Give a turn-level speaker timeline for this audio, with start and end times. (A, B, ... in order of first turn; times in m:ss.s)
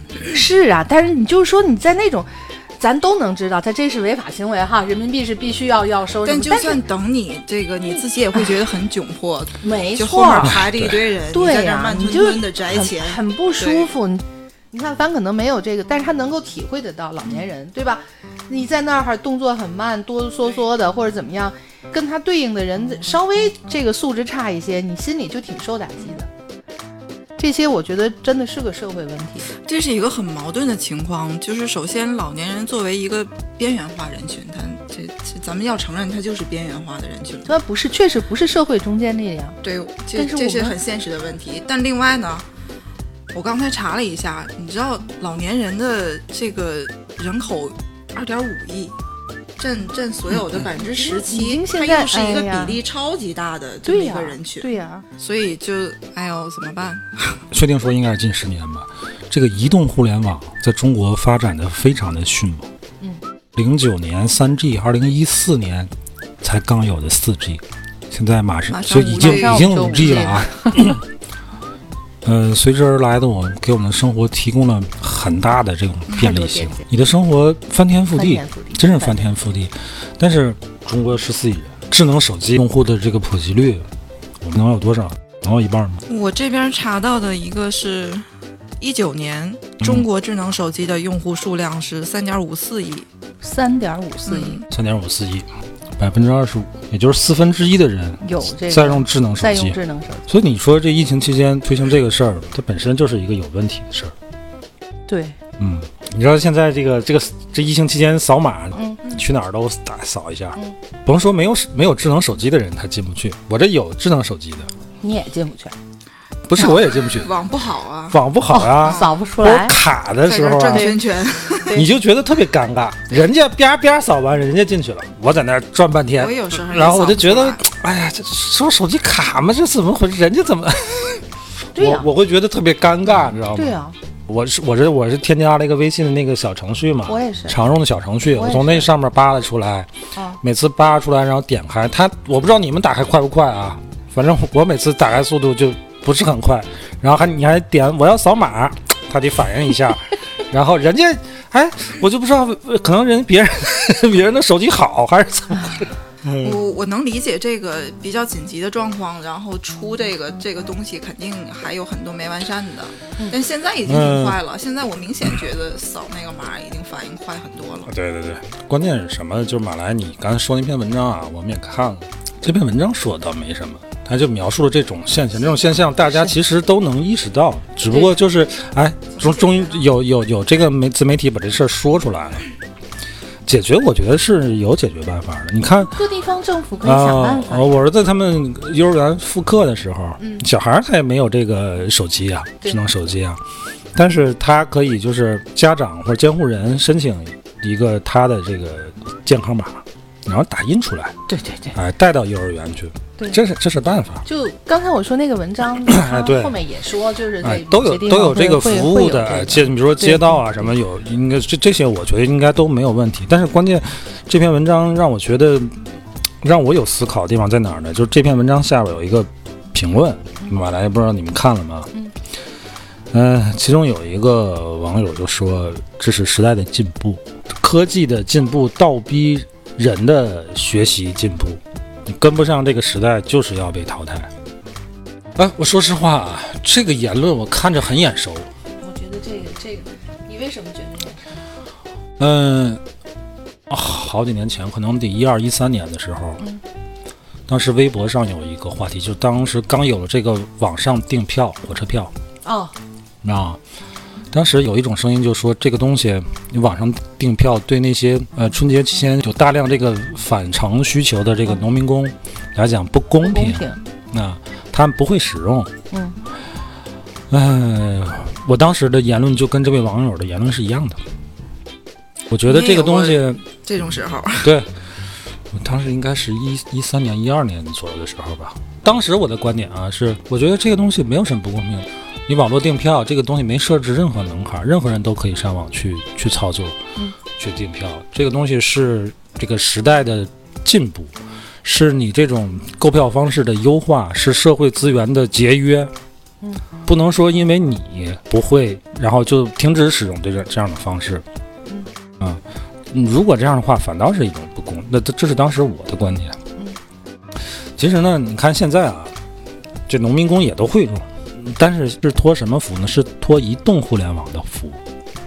0:00.3-0:06.8 A
0:06.2-0:13.9 B
0:09.6-0:10.6 A
0:10.4-0:11.0 C
0:11.3-0:26.3 A
0:27.4-0:29.5 A
0:29.5-0:37.5 B
0:37.4-0:39.6 A
0:39.6-0:42.4 B
0:40.1-0:40.8 A
0:43.3-0:48.9 B
0:49.6-0:57.4 B
0:50.8-0:52.8 A
0:53.8-0:55.0 A
0:57.5-1:02.7 C
1:03.6-1:11.0 C
1:08.7-1:10.3 B
1:09.1-1:11.0 A
1:12.2-1:23.8 C
1:16.1-1:16.4 B
1:16.1-1:16.9 A
1:18.1-1:19.3 A
1:24.4-1:26.0 C
1:26.1-1:28.2 B
1:28.8-1:33.1 B
1:33.4-1:34.6 A
1:34.3-1:34.6 B
1:34.7-1:35.5 C
1:36.0-1:44.1 C
1:38.2-1:40.3 A
1:45.1-1:45.4 A
1:45.6-1:54.7 C
1:48.7-1:49.0 A
1:55.0-1:55.7 A
1:56.5-1:57.3 C
1:56.6-1:58.2 B
1:58.1-2:01.0 C
1:58.5-1:59.8 A
1:58.7-1:59.1 B
2:00.2-2:01.8 B
2:00.7-2:01.0 A
2:01.6-2:01.9 A
2:01.7-2:11.2 C
2:06.2-2:07.6 B
2:11.7-2:12.1 A
2:11.8-2:13.8 C
2:13.5-2:13.9 A
2:14.3-2:19.9 C
2:17.1-2:17.6 A
2:18.3-2:18.9 A
2:20.1-2:20.4 A
2:20.4-2:36.6 C
2:36.4-2:47.9 B
2:43.8-2:44.4 C
2:47.9-3:02.4 C
2:57.9-2:58.1 A
2:59.2-2:59.7 A
3:03.4-3:06.0 C
3:05.8-3:07.7 A
3:06.8-3:13.4 C
3:10.2-3:10.5 A
3:13.9-3:21.2 C
3:21.3-3:21.8 A
3:21.7-3:24.2 C
3:24.2-3:30.7 A
3:25.8-3:26.6 C
3:27.4-3:35.8 C
3:36.4-3:41.9 C
3:43.1-3:54.3 C
3:55.4-3:58.5 C
3:58.8-4:01.2 A
4:02.2-4:02.8 C
4:03.7-4:06.4 C
4:07.5-4:12.1 C
4:12.4-4:12.7 A
4:13.2-4:13.6 C
4:14.3-4:25.7 C
4:23.2-4:23.8 A
4:25.9-4:26.2 A
4:27.3-4:31.0 C
4:32.3-4:33.4 C
4:32.4-4:34.5 B
4:34.4-4:34.7 C
4:35.5-4:46.8 C
4:47.4-4:51.1 C
4:51.6-4:55.9 C
4:56.8-5:01.2 C
5:02.2-5:06.4 C
5:07.8-5:09.1 C
5:09.9-5:14.8 C